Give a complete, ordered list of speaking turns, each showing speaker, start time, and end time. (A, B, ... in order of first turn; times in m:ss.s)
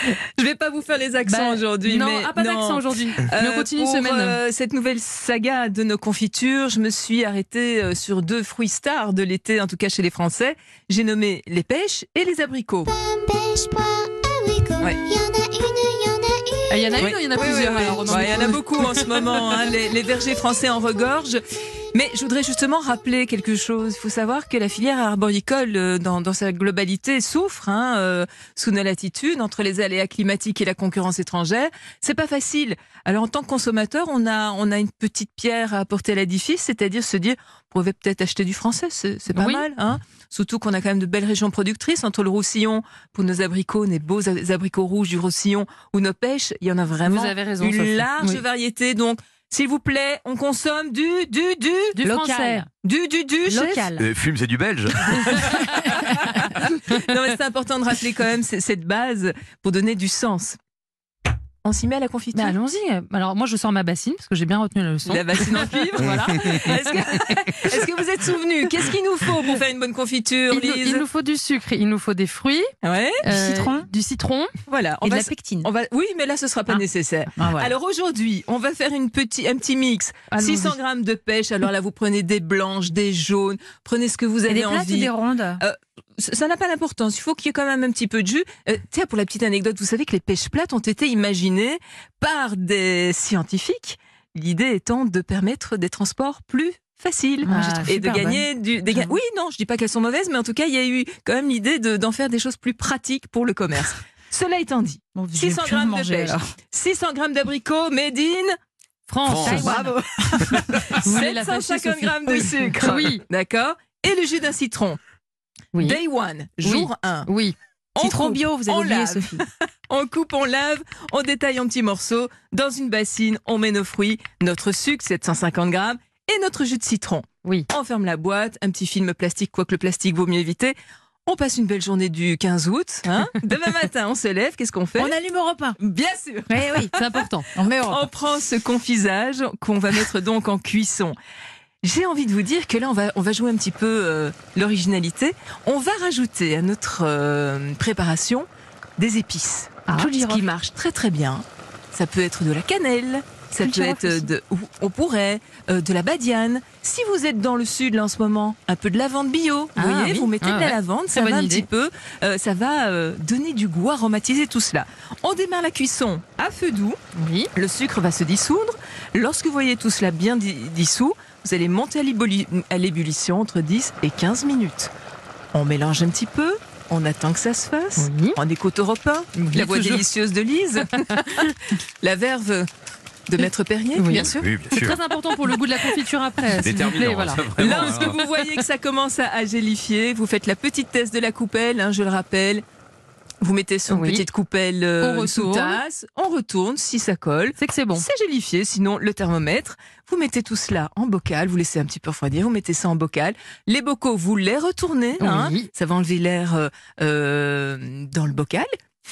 0:00.4-0:12.9 A
0:01.3-0:04.4 B
0:13.1-0:16.4 C
0:16.7-0:19.1 B
0:17.0-0:21.4 A
0:21.9-0:52.0 A
0:39.3-0:39.6 B
0:47.0-0:48.4 B
0:52.0-0:52.6 B
0:52.0-0:52.7 D
0:52.8-0:53.9 A
0:53.5-0:54.0 D
0:54.0-0:55.7 E
0:56.4-1:00.6 A
1:01.6-1:02.6 A
1:02.3-1:06.8 B
1:05.0-1:11.0 A
1:10.5-1:12.7 B
1:12.8-1:13.2 A
1:13.2-1:14.5 B
1:13.3-1:13.9 D
1:14.7-1:48.6 A
1:15.0-1:15.7 D
1:17.4-1:17.7 D
1:20.3-1:20.8 B
1:24.5-1:25.6 D
1:37.4-1:39.1 D
1:45.1-1:46.5 D
1:49.1-1:49.9 B
1:49.2-1:49.8 E
1:49.4-1:51.0 D
1:49.5-1:50.0 A
1:50.4-1:50.7 E
1:51.0-1:52.2 B
1:51.0-1:55.0 A
1:52.7-1:53.2 B
1:55.7-1:56.0 B
1:55.8-1:57.3 A
1:56.6-1:57.5 B
1:58.0-2:15.1 A
1:58.0-1:59.4 D
2:15.0-2:15.8 D
2:15.8-2:17.1 A
2:16.5-2:16.9 D
2:17.0-2:17.5 B
2:17.5-2:18.1 D
2:17.8-2:21.2 A
2:21.8-2:28.5 A
2:29.0-2:47.0 A
2:29.9-2:30.4 B
2:33.6-2:34.1 B
2:33.8-2:34.2 D
2:39.8-2:41.6 B
2:47.1-2:47.5 B
2:47.5-2:54.9 A
2:55.5-3:02.7 A
2:58.0-2:58.4 B
2:59.4-3:00.0 B
3:00.9-3:01.2 B
3:03.3-3:04.5 A
3:03.9-3:07.9 B
3:04.1-3:05.0 E
3:06.6-3:08.2 E
3:07.5-3:12.6 A
3:13.4-3:28.7 A
3:13.9-3:14.3 B
3:15.0-3:15.8 B
3:17.6-3:18.0 B
3:25.2-3:25.7 B